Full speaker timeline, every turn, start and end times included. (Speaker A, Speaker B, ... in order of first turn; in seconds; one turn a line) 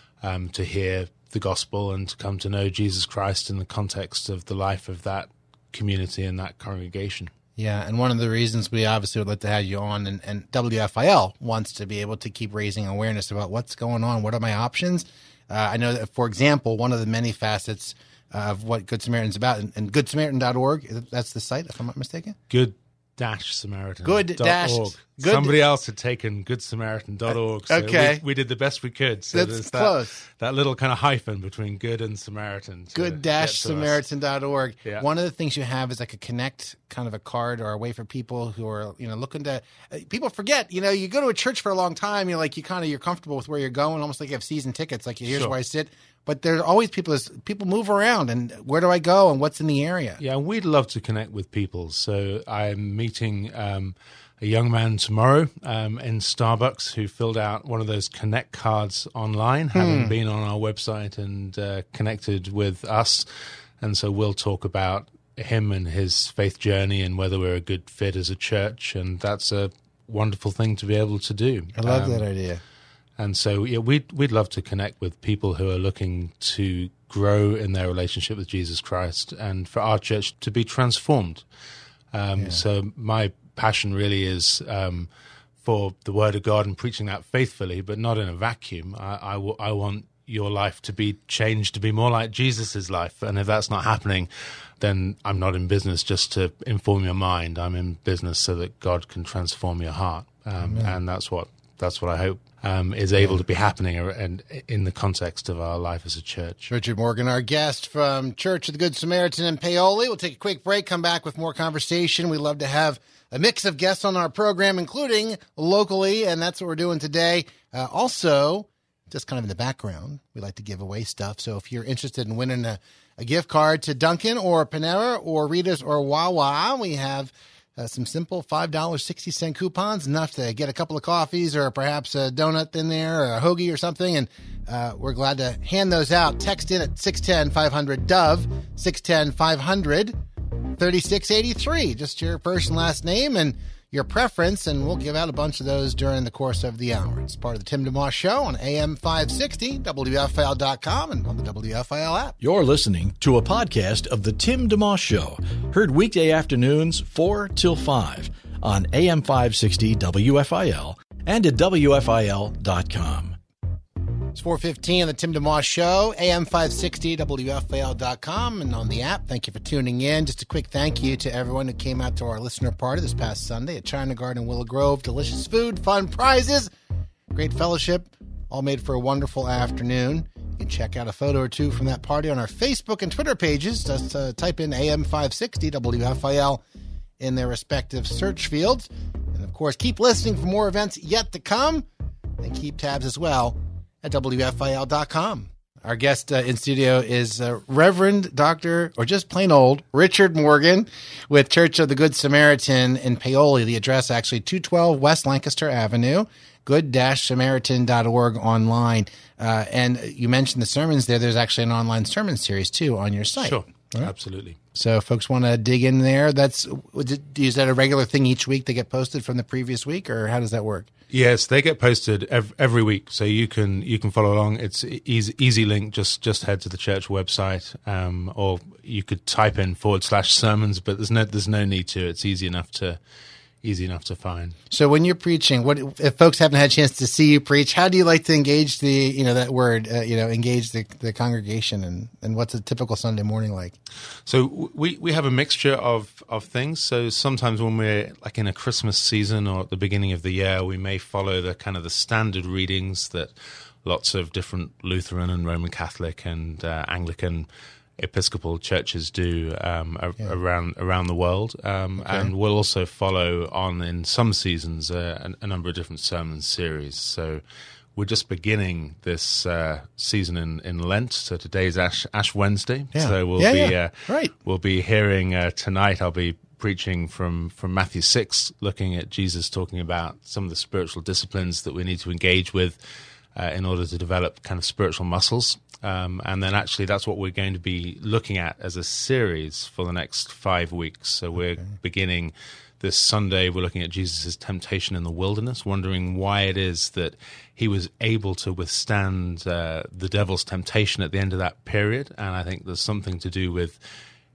Speaker A: 0.2-7.3
Speaker B: 7.6-22.4
Speaker A: 22.5-34.0
Speaker B: 24.0-25.6
Speaker B: 27.3-28.2
Speaker B: 29.3-30.2
Speaker B: 32.9-50.2
Speaker A: 45.2-45.5
Speaker A: 50.2-63.2
Speaker B: 59.7-60.1
Speaker A: 63.8-72.3
Speaker B: 71.7-72.6
Speaker A: 73.2-81.4
Speaker A: 82.1-85.1
Speaker B: 82.4-82.6
Speaker A: 85.6-106.7
Speaker B: 100.6-101.0
Speaker B: 106.7-140.2
Speaker B: 140.8-152.3
Speaker C: 152.4-163.4
Speaker B: 164.3-176.7
Speaker B: 177.3-186.6
Speaker B: 187.2-191.9
Speaker B: 192.4-214.1
Speaker A: 213.4-214.6
Speaker B: 214.7-220.9
Speaker A: 221.1-233.0
Speaker A: 233.6-234.6
Speaker B: 234.7-243.8
Speaker A: 244.2-253.3
Speaker A: 253.8-257.5
Speaker A: 258.0-267.4
Speaker B: 262.0-262.3
Speaker A: 267.9-282.8
Speaker B: 272.9-274.3
Speaker A: 283.3-303.8
Speaker B: 291.4-291.6